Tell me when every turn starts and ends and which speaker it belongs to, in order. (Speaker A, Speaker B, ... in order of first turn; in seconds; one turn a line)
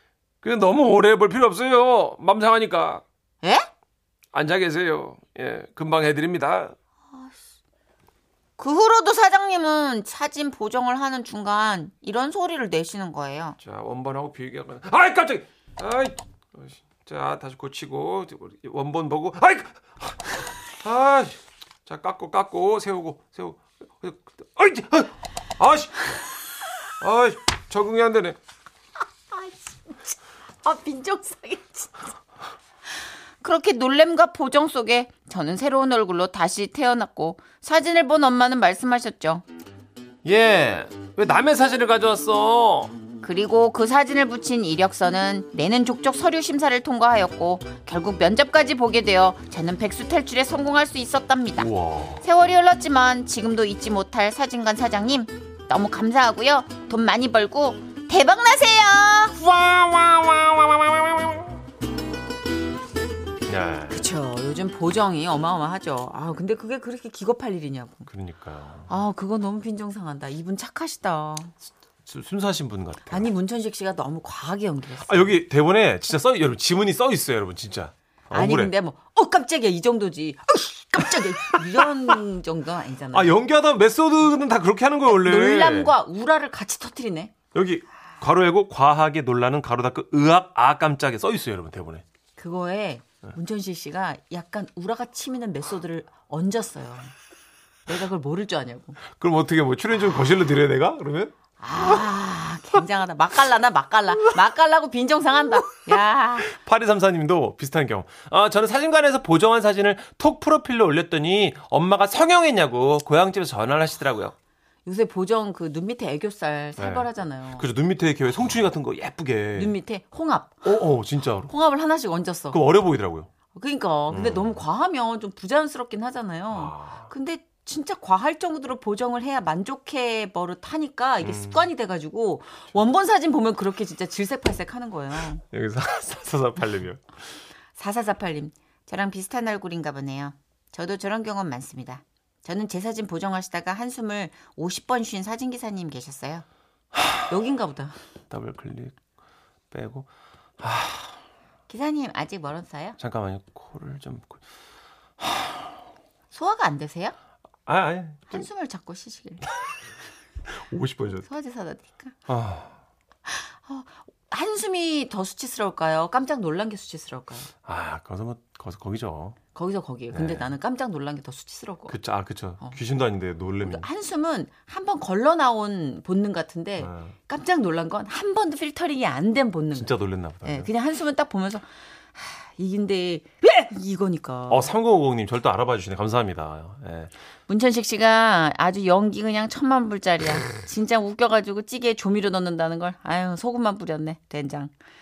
Speaker A: 0.4-3.0
Speaker B: 3.4-3.7
Speaker A: 4.3-6.7
Speaker B: 8.6-13.6
Speaker A: 13.6-26.1
Speaker A: 27.0-28.4
Speaker B: 29.3-30.0
Speaker B: 30.6-32.1
Speaker B: 33.4-39.4
Speaker A: 40.2-42.9
Speaker B: 43.2-59.4
Speaker A: 51.6-52.2
Speaker A: 59.4-61.6
Speaker A: 63.5-64.0
Speaker B: 63.9-68.1
Speaker A: 68.1-68.9
Speaker B: 68.9-71.5
Speaker A: 72.0-73.3
Speaker B: 73.1-75.4
Speaker A: 75.0-78.7
Speaker B: 78.3-83.3
Speaker A: 81.8-82.1
Speaker A: 83.1-85.9
Speaker B: 85.1-87.3
Speaker A: 87.5-92.0
Speaker B: 92.4-97.1
Speaker B: 97.9-99.0
Speaker A: 99.1-101.8
Speaker B: 101.6-106.6
Speaker A: 105.9-114.3
Speaker B: 114.8-117.7
Speaker A: 116.8-119.8
Speaker B: 119.5-120.7
Speaker A: 120.6-121.5
Speaker B: 121.5-122.6
Speaker A: 122.5-123.3
Speaker B: 123.5-135.4
Speaker A: 124.1-124.6
Speaker A: 126.5-127.1
Speaker A: 131.2-131.7
Speaker A: 135.5-137.0
Speaker B: 137.8-146.4
Speaker B: 147.2-148.0
Speaker A: 148.3-149.0
Speaker A: 149.7-150.1
Speaker A: 150.6-151.2
Speaker B: 151.7-153.0
Speaker A: 153.0-154.4
Speaker A: 155.2-155.6
Speaker B: 156.3-157.1
Speaker A: 157.7-158.5
Speaker B: 158.3-159.5
Speaker A: 160.6-161.2
Speaker B: 161.1-162.2
Speaker A: 162.3-162.7
Speaker B: 163.2-167.5
Speaker A: 167.6-169.4
Speaker B: 169.5-172.0
Speaker A: 170.1-170.5
Speaker A: 171.9-173.9
Speaker B: 173.6-184.7
Speaker A: 176.8-177.1
Speaker A: 179.7-180.7
Speaker A: 184.5-187.1
Speaker B: 187.5-194.7